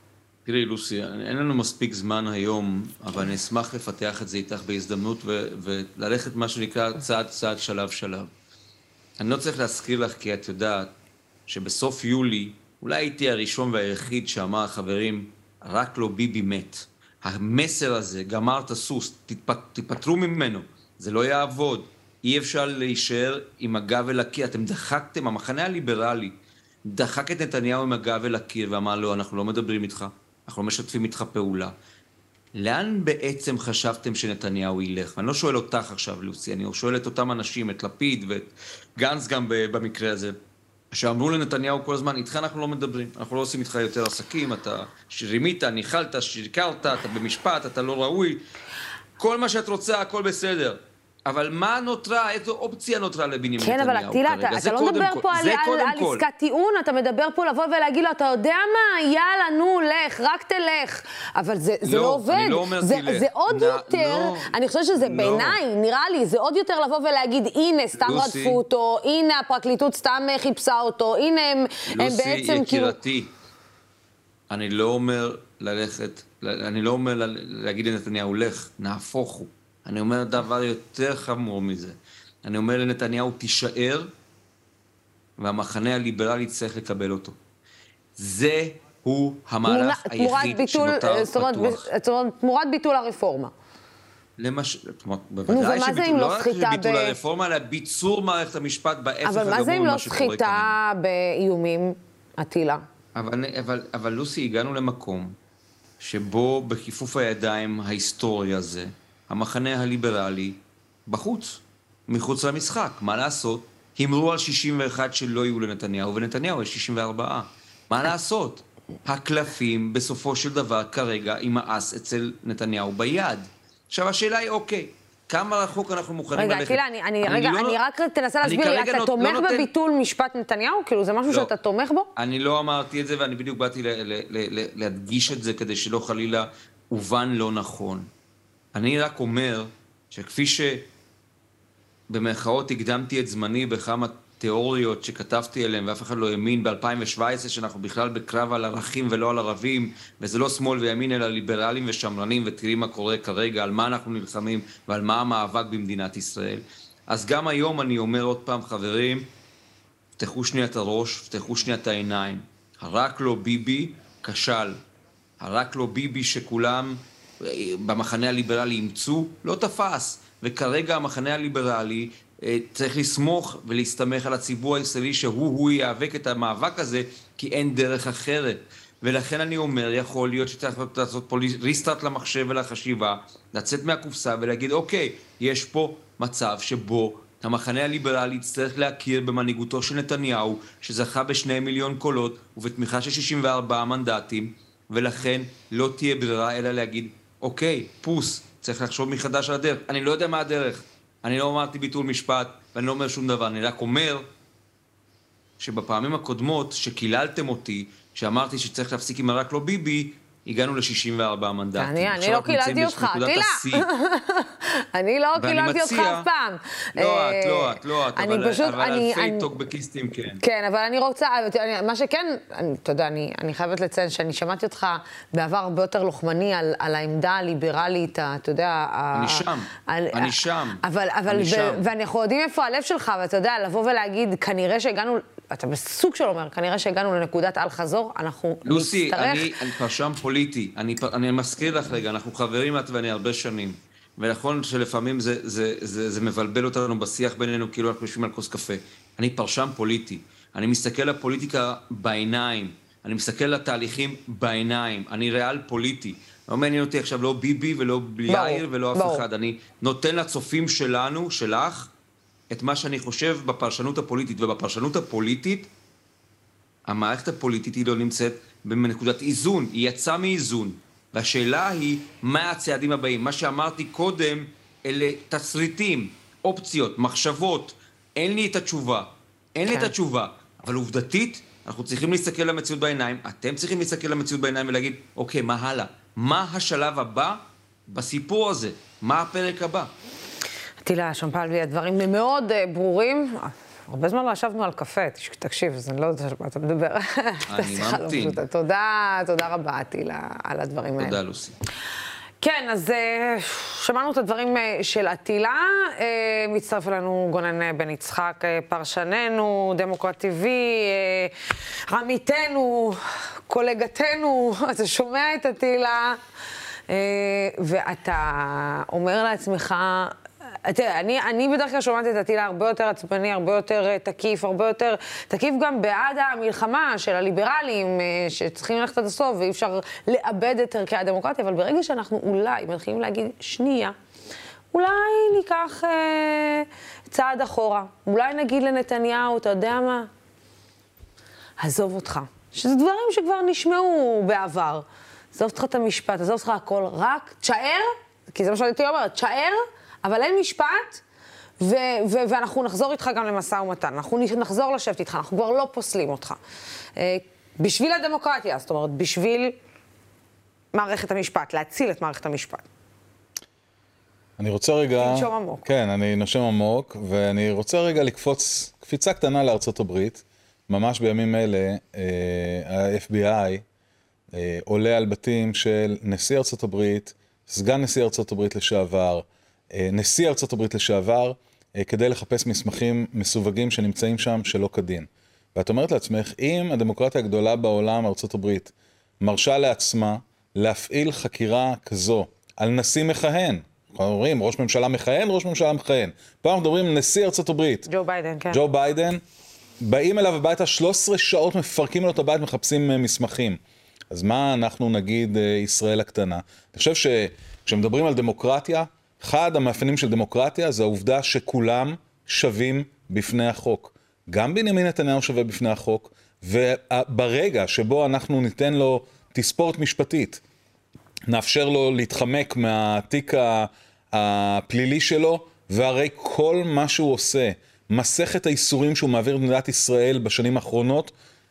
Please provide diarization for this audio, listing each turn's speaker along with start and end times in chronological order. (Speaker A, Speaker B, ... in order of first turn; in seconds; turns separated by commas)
Speaker A: 0.5-8.3, Speaker A: 9.2-10.9, Speaker A: 11.5-26.3, Speaker A: 26.9-31.7, Speaker A: 32.5-40.3, Speaker A: 40.9-48.4, Speaker A: 49.2-56.2, Speaker B: 53.6-73.0, Speaker A: 61.8-65.6, Speaker A: 68.0-68.6, Speaker A: 71.9-73.3, Speaker A: 74.5-84.1, Speaker A: 85.4-87.3, Speaker A: 88.2-91.8, Speaker B: 89.7-93.5, Speaker A: 94.4-100.8, Speaker B: 95.5-97.2, Speaker B: 99.2-102.8, Speaker A: 103.1-105.3, Speaker A: 106.0-127.8, Speaker B: 126.3-132.1, Speaker A: 128.4-129.7, Speaker A: 132.2-138.1, Speaker A: 138.7-140.9, Speaker A: 142.1-159.3, Speaker A: 160.2-164.8, Speaker A: 165.4-204.2, Speaker A: 205.6-213.9, Speaker B: 211.8-219.5, Speaker A: 215.3-216.3, Speaker A: 216.9-220.4, Speaker B: 220.4-239.5, Speaker A: 229.1-231.9, Speaker A: 238.6-261.9, Speaker B: 258.3-259.2, Speaker A: 262.5-265.7, Speaker A: 266.9-289.9, Speaker B: 279.6-279.9, Speaker B: 290.8-301.2, Speaker A: 297.5-298.4, Speaker A: 301.0-301.6, Speaker B: 302.4-316.2, Speaker B: 316.9-333.9, Speaker B: 334.7-340.1, Speaker B: 341.6-351.0, Speaker B: 351.6-356.4, Speaker B: 357.0-359.5, Speaker B: 360.7-362.7, Speaker C: 364.4-373.6, Speaker B: 365.0-365.7, Speaker C: 374.3-397.9, Speaker B: 397.9-398.6, Speaker C: 398.5-399.2, Speaker C: 399.8-403.6, Speaker C: 404.1-420.4, Speaker C: 421.3-431.1